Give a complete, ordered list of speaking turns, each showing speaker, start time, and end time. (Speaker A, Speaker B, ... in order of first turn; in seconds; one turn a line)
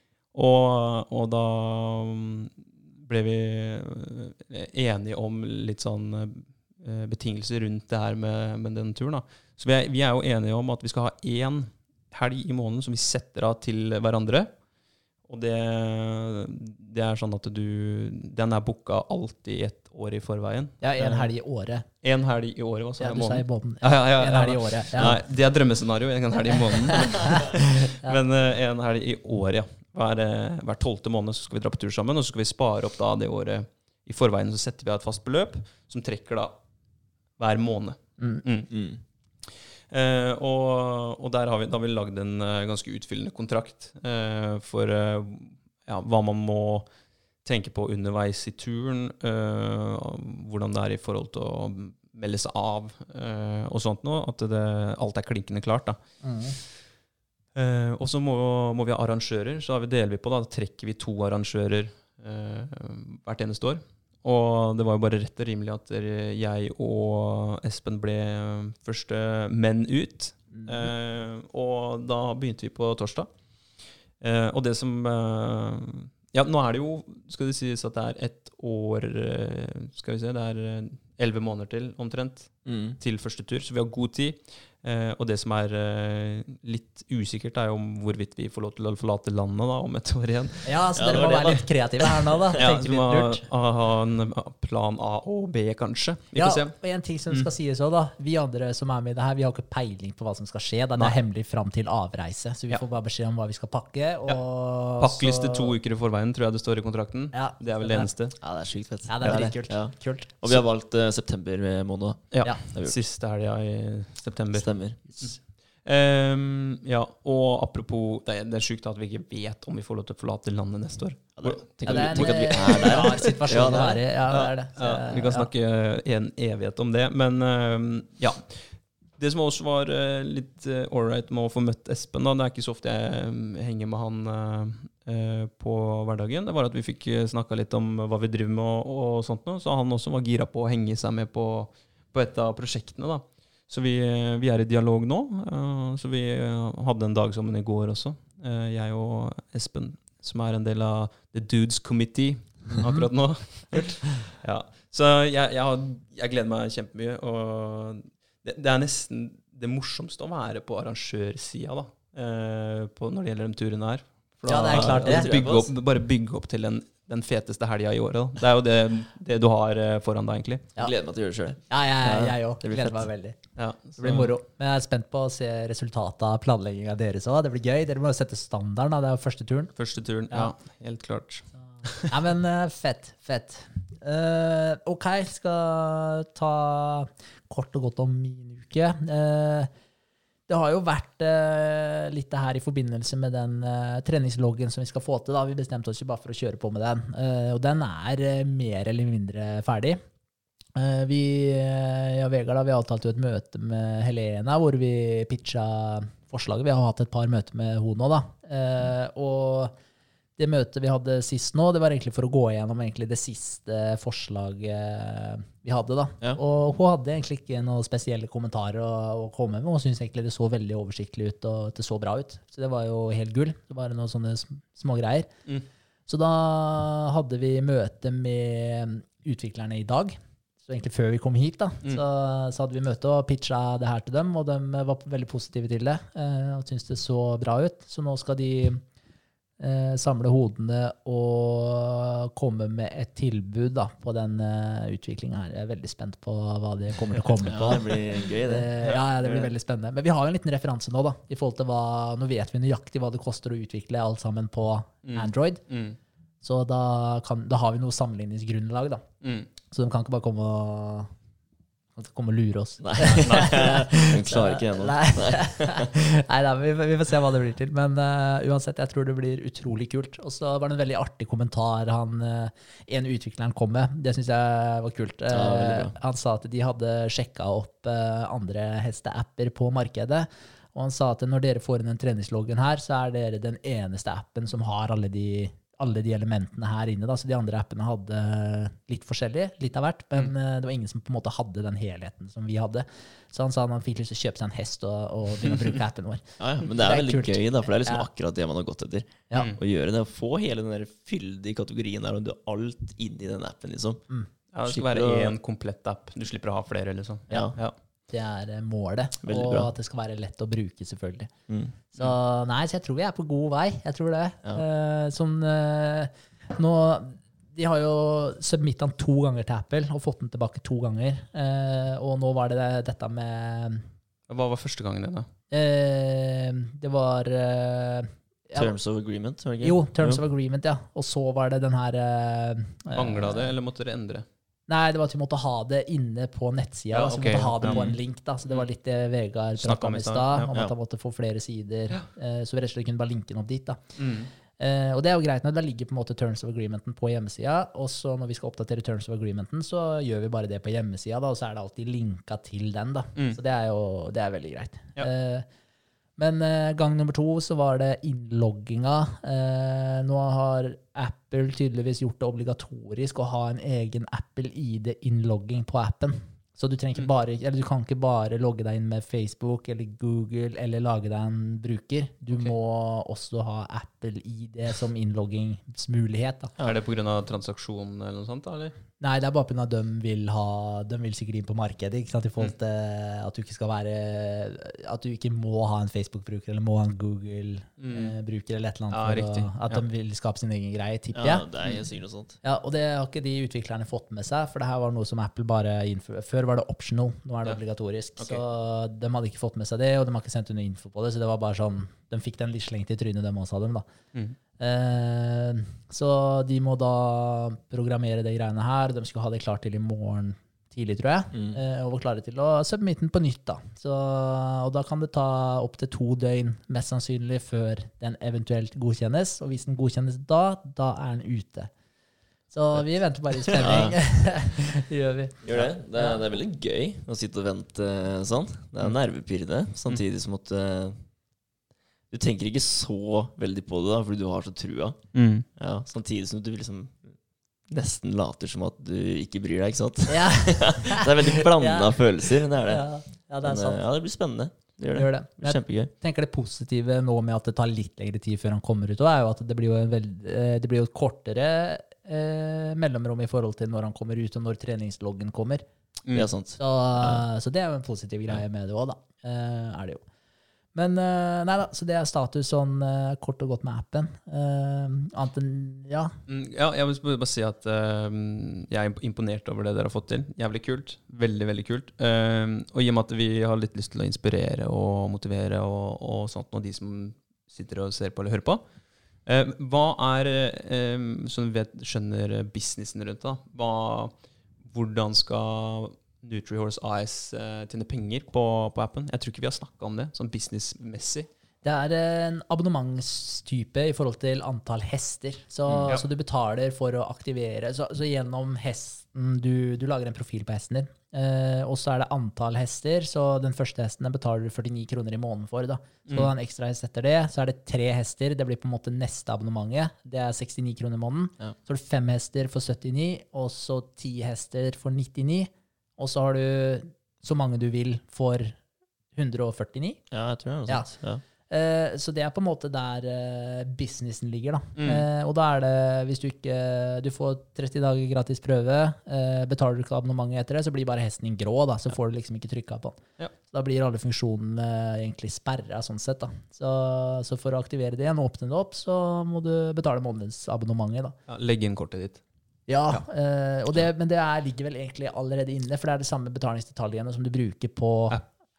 Speaker A: 0.3-14.5
Speaker A: 15.2-21.3
Speaker B: 20.8-21.9
Speaker A: 22.0-36.5
Speaker B: 23.0-25.2
Speaker B: 26.5-27.4
Speaker A: 37.4-38.7
Speaker C: 38.7-39.0
Speaker A: 39.4-46.9
Speaker A: 47.4-56.0
Speaker B: 56.2-56.5
Speaker A: 57.5-73.3
Speaker B: 70.5-70.9
Speaker A: 74.2-91.5
Speaker C: 82.7-83.0
Speaker B: 90.6-93.4
Speaker C: 91.0-92.6
Speaker A: 92.6-96.8
Speaker B: 96.3-105.7
Speaker A: 105.0-108.3
Speaker B: 107.3-108.1
Speaker C: 108.4-113.0
Speaker B: 109.1-110.4
Speaker A: 112.3-170.7
Speaker C: 114.5-115.0
Speaker C: 121.4-124.0
Speaker B: 121.9-125.5
Speaker B: 152.8-153.1
Speaker B: 164.5-165.3
Speaker C: 164.7-165.7
Speaker C: 170.8-173.1
Speaker B: 171.7-173.4
Speaker A: 173.6-174.3
Speaker B: 174.0-179.7
Speaker A: 179.8-182.1
Speaker B: 182.0-189.7
Speaker B: 190.5-200.0
Speaker B: 200.8-209.7
Speaker B: 210.4-225.3
Speaker B: 226.1-238.8
Speaker B: 239.6-255.6
Speaker C: 247.4-249.5
Speaker A: 255.1-256.0
Speaker B: 256.4-259.0
Speaker A: 259.2-259.5
Speaker B: 259.7-261.1
Speaker B: 261.9-298.1
Speaker C: 262.8-265.9
Speaker A: 263.2-263.6
Speaker C: 275.3-275.9
Speaker C: 296.4-304.0
Speaker A: 304.5-307.7
Speaker C: 304.6-305.3
Speaker B: 307.3-307.5
Speaker B: 308.1-311.3
Speaker C: 309.2-309.7
Speaker C: 311.5-311.7
Speaker B: 311.9-323.8
Speaker A: 324.3-325.3
Speaker B: 325.5-328.7
Speaker C: 328.6-330.2
Speaker B: 329.6-333.5
Speaker A: 332.9-334.2
Speaker B: 334.7-343.9
Speaker A: 336.9-337.9
Speaker C: 337.6-337.9
Speaker A: 339.6-340.5
Speaker A: 344.0-344.3
Speaker B: 344.6-355.4
Speaker B: 356.2-376.5
Speaker A: 376.6-378.7
Speaker B: 379.0-391.5
Speaker A: 387.8-388.1
Speaker A: 388.9-389.8
Speaker C: 391.1-392.4
Speaker B: 392.4-403.9
Speaker B: 404.6-421.7
Speaker C: 411.3-411.6
Speaker B: 422.5-426.2
Speaker C: 423.5-424.0
Speaker C: 425.4-431.0
Speaker C: 432.1-435.0
Speaker A: 435.1-435.4
Speaker C: 435.6-437.2
Speaker C: 437.7-442.8
Speaker B: 440.1-443.8
Speaker C: 443.4-445.9
Speaker B: 444.9-455.6
Speaker C: 456.1-457.2
Speaker B: 456.6-460.0
Speaker B: 460.7-466.1
Speaker A: 466.3-478.6
Speaker A: 479.2-484.1
Speaker A: 484.7-491.3
Speaker B: 491.6-518.6
Speaker B: 519.1-520.0
Speaker C: 520.1-521.2
Speaker B: 520.7-520.9
Speaker B: 521.5-541.1
Speaker A: 524.8-525.0
Speaker A: 541.3-542.2
Speaker B: 542.7-548.2